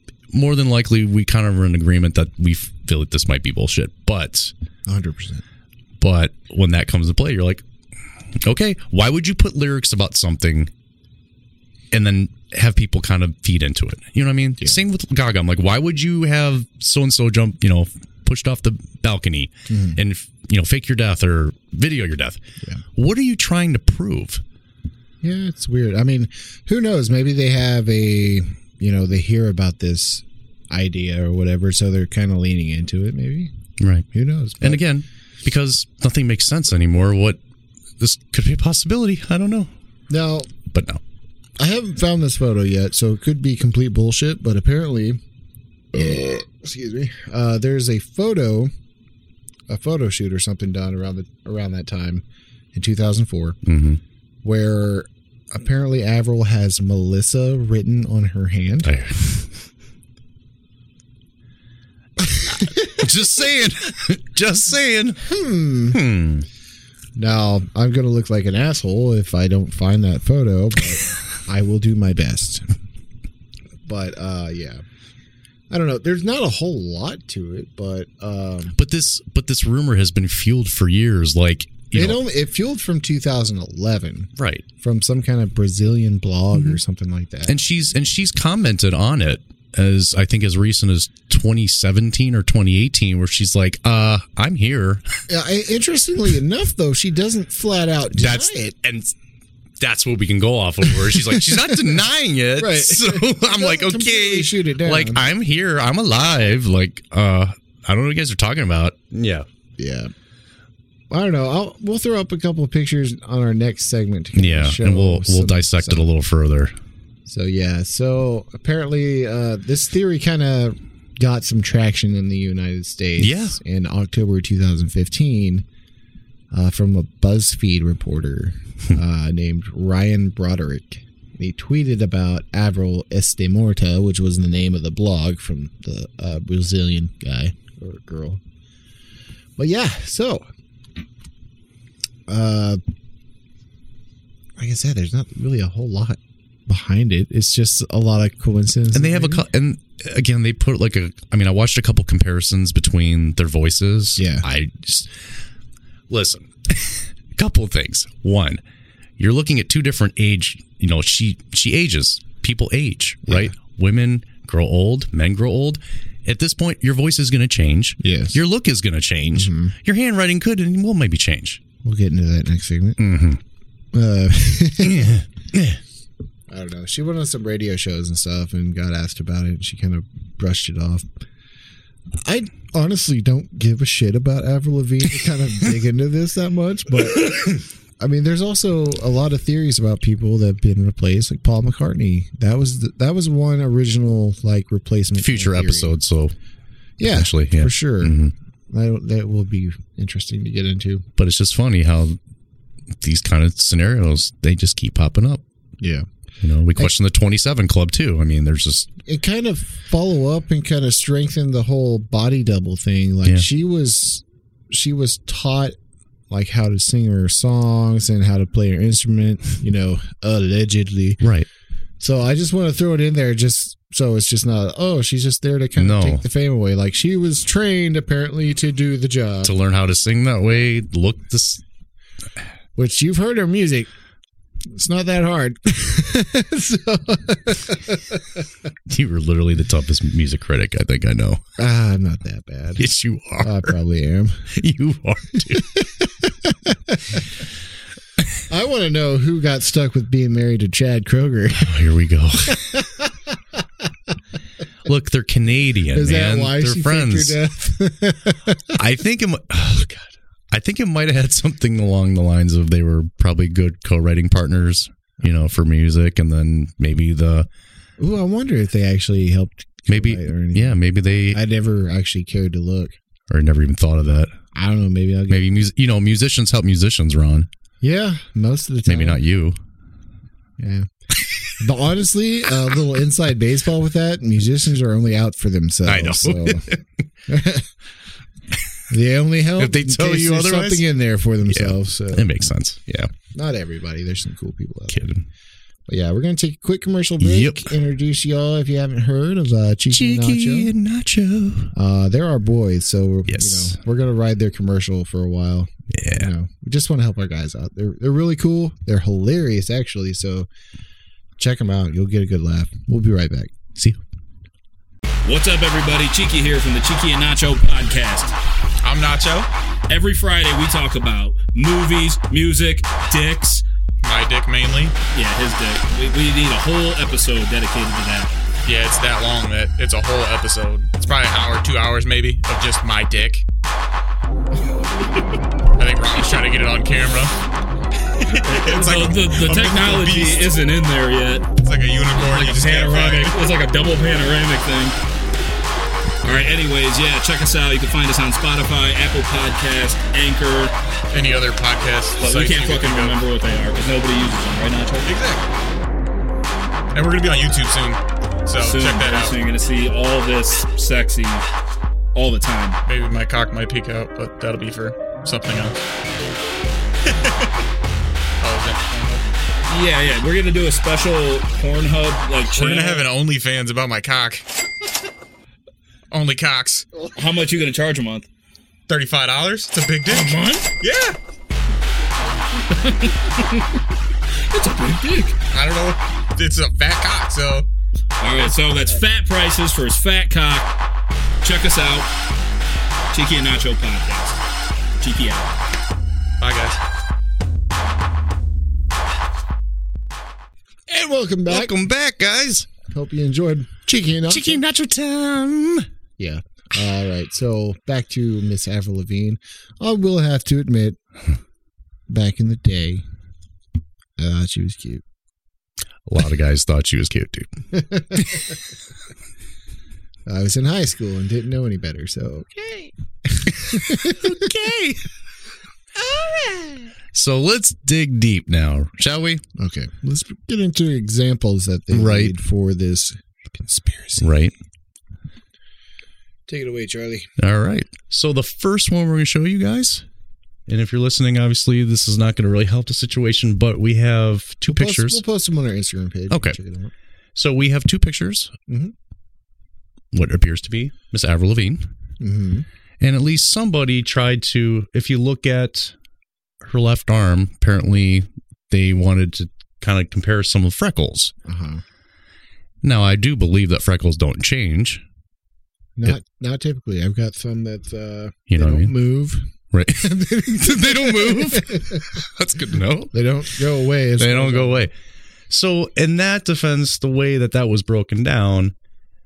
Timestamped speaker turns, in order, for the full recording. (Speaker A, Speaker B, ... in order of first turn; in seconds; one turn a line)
Speaker A: 0.3-4.5
Speaker B: 4.9-5.4
Speaker A: 6.0-7.6
Speaker A: 8.4-10.7
Speaker A: 11.9-22.4
Speaker B: 19.7-20.0
Speaker A: 22.9-24.4
Speaker B: 25.2-33.5
Speaker A: 33.8-34.1
Speaker B: 34.1-34.8
Speaker A: 34.6-37.4
Speaker A: 38.0-39.7
Speaker B: 40.1-40.5
Speaker A: 40.7-41.0
Speaker B: 41.6-45.2
Speaker B: 45.9-48.7
Speaker B: 49.7-52.2
Speaker B: 52.7-53.6
Speaker A: 53.6-54.0
Speaker B: 54.4-59.0
Speaker A: 58.8-59.5
Speaker B: 62.4-63.0
Speaker A: 62.6-65.2
Speaker B: 65.2-66.0
Speaker A: 65.9-66.5
Speaker B: 67.2-72.7
Speaker B: 73.9-74.8
Speaker B: 75.7-78.8
Speaker A: 78.8-82.2
Speaker B: 81.9-87.6
Speaker A: 84.4-84.7
Speaker A: 86.5-86.8
Speaker A: 87.5-95.0
Speaker B: 95.3-98.7
Speaker A: 98.1-99.1
Speaker A: 99.8-109.5
Speaker B: 101.1-102.0
Speaker B: 102.6-105.2
Speaker B: 109.8-110.1
Speaker B: 111.1-116.1
Speaker A: 114.3-116.8
Speaker B: 117.3-125.7
Speaker A: 123.2-123.6
Speaker B: 126.5-138.4
Speaker B: 139.6-140.4
Speaker B: 142.3-142.8
Speaker B: 144.6-149.4
Speaker A: 148.9-155.1
Speaker B: 154.2-154.4
Speaker A: 156.1-158.6
Speaker A: 159.2-171.6
Speaker B: 163.3-163.5
Speaker B: 168.0-168.4
Speaker B: 169.3-169.7
Speaker B: 171.8-173.1
Speaker A: 173.0-173.4
Speaker B: 173.9-175.2
Speaker A: 174.8-175.8
Speaker B: 176.5-181.1
Speaker B: 182.2-196.0
Speaker A: 195.2-196.3
Speaker B: 197.0-198.2
Speaker A: 197.0-198.3
Speaker B: 198.7-201.1
Speaker A: 201.2-202.2
Speaker A: 203.0-205.4
Speaker B: 205.8-206.1
Speaker A: 206.4-208.9
Speaker B: 209.1-215.8
Speaker B: 216.3-221.2
Speaker A: 221.2-221.5
Speaker B: 222.0-229.5
Speaker A: 225.8-226.2
Speaker A: 229.4-231.6
Speaker B: 232.8-233.9
Speaker B: 234.7-238.4
Speaker A: 238.9-241.4
Speaker B: 241.6-242.9
Speaker A: 242.8-243.8
Speaker B: 243.4-244.5
Speaker A: 244.5-245.7
Speaker B: 245.5-247.2
Speaker B: 248.5-251.8
Speaker A: 251.6-252.7
Speaker B: 252.5-253.1
Speaker A: 254.8-257.4
Speaker B: 255.9-258.8
Speaker A: 258.8-267.5
Speaker B: 268.0-270.8
Speaker A: 269.9-271.4
Speaker B: 271.3-272.9
Speaker A: 273.3-274.4
Speaker B: 274.5-275.6
Speaker A: 275.3-277.5
Speaker B: 277.8-279.2
Speaker A: 278.9-279.6
Speaker B: 280.6-280.9
Speaker B: 281.6-286.7
Speaker A: 285.9-286.9
Speaker B: 287.3-287.7
Speaker B: 288.9-292.3
Speaker A: 289.6-290.9
Speaker A: 291.5-293.1
Speaker B: 293.3-295.0
Speaker A: 294.9-295.3
Speaker B: 295.9-300.7
Speaker A: 297.2-297.7
Speaker A: 299.9-301.7
Speaker B: 301.7-310.5
Speaker A: 303.3-303.8
Speaker A: 305.9-306.3
Speaker B: 311.4-313.5
Speaker C: 315.2-318.4
Speaker D: 318.8-319.5
Speaker C: 319.9-323.6
Speaker D: 324.0-324.9
Speaker C: 325.1-328.3
Speaker D: 328.6-333.4
Speaker D: 335.8-337.3
Speaker D: 338.2-340.6
Speaker C: 338.2-341.5
Speaker D: 341.6-343.4
Speaker C: 342.1-345.0
Speaker C: 346.2-350.7
Speaker D: 351.1-353.2
Speaker C: 352.2-355.1
Speaker D: 355.0-355.5
Speaker D: 356.9-359.4
Speaker C: 358.6-361.4
Speaker C: 362.1-362.8
Speaker D: 362.9-365.8
Speaker D: 368.4-369.2
Speaker C: 369.7-373.1
Speaker D: 372.5-374.5
Speaker D: 376.1-376.9
Speaker C: 377.1-378.3
Speaker D: 378.9-381.2
Speaker C: 380.1-380.7
Speaker C: 382.7-383.8
Speaker C: 384.5-385.4
Speaker D: 385.5-387.7
Speaker C: 388.2-390.7
Speaker C: 391.4-392.1
Speaker C: 393.1-394.4
Speaker C: 395.0-395.5
Speaker D: 396.4-396.8
Speaker B: 400.9-401.8
Speaker A: 401.5-402.7
Speaker B: 402.9-404.6
Speaker A: 404.3-405.9
Speaker B: 406.2-411.0
Speaker B: 412.1-413.0
Speaker B: 414.2-415.0
Speaker A: 416.1-417.5
Speaker B: 417.7-418.4
Speaker B: 420.3-424.4
Speaker A: 423.7-425.0
Speaker B: 426.0-426.9
Speaker A: 427.1-429.4
Speaker B: 429.6-434.3
Speaker A: 431.9-432.3
Speaker A: 434.2-434.5
Speaker B: 436.5-437.3
Speaker A: 437.4-440.1
Speaker A: 440.7-445.2
Speaker B: 444.7-446.9
Speaker A: 446.3-446.6
Speaker A: 447.4-448.5
Speaker B: 448.7-448.9
Speaker A: 450.1-451.9
Speaker B: 452.2-452.7
Speaker A: 453.0-455.9
Speaker A: 456.6-461.3
Speaker B: 461.4-461.8
Speaker A: 462.8-465.0
Speaker B: 466.0-472.1
Speaker A: 468.5-468.9
Speaker A: 469.7-473.1
Speaker B: 473.1-474.9
Speaker A: 474.2-474.9
Speaker A: 475.5-478.7